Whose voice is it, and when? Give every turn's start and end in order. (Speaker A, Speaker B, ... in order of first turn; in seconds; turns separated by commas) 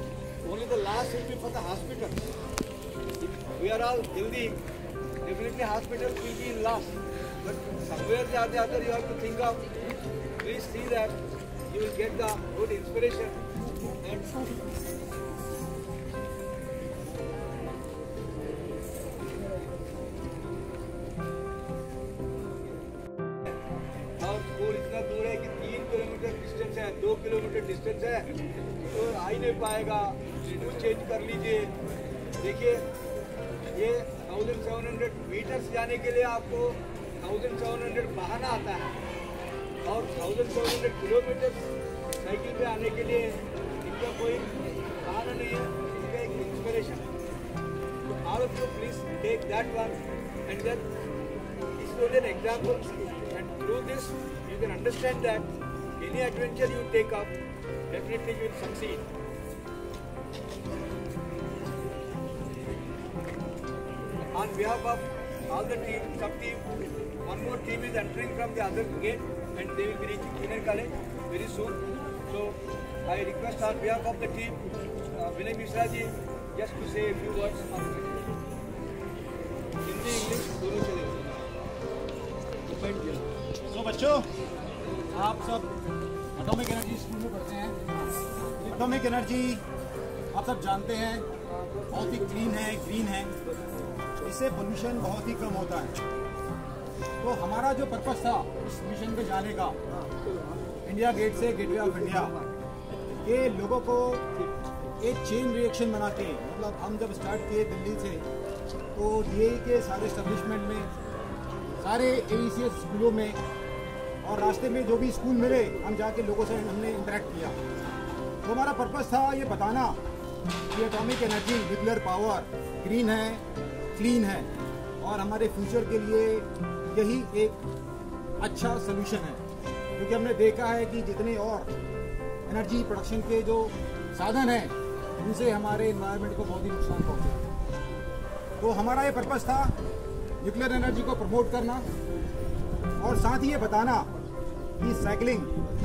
Speaker A: 0.4-2.3, Speaker A: 3.2-4.6, Speaker A: 5.2-9.7, Speaker A: 10.4-13.4, Speaker A: 14.0-14.5, Speaker A: 24.2-31.8, Speaker A: 32.4-32.9, Speaker A: 33.7-39.0, Speaker A: 39.8-44.5, Speaker A: 45.0-47.1, Speaker A: 48.1-50.9, Speaker A: 51.7-57.4, Speaker A: 57.9-59.1, Speaker A: 64.3-66.7, Speaker A: 67.2-78.4, Speaker A: 79.8-81.4, Speaker A: 82.7-83.3, Speaker B: 83.7-84.3, Speaker B: 85.1-85.7, Speaker B: 86.3-87.9, Speaker B: 88.6-89.6, Speaker B: 90.3-91.3, Speaker A: 91.6-92.4, Speaker B: 91.9-93.4, Speaker B: 94.2-96.0, Speaker B: 97.2-99.8, Speaker A: 99.9-100.7, Speaker B: 100.8-102.3, Speaker A: 101.5-102.5, Speaker B: 103.1-104.2, Speaker B: 105.0-108.3, Speaker B: 109.0-110.9, Speaker B: 111.7-113.4, Speaker B: 114.2-117.6, Speaker B: 118.4-120.0, Speaker B: 120.7-123.4, Speaker B: 124.0-124.5, Speaker B: 125.0-127.6, Speaker B: 128.4-129.4, Speaker B: 130.0-131.7, Speaker B: 132.5-137.5, Speaker B: 138.6-139.8, Speaker B: 140.4-141.9, Speaker B: 143.0-144.1, Speaker B: 144.8-145.5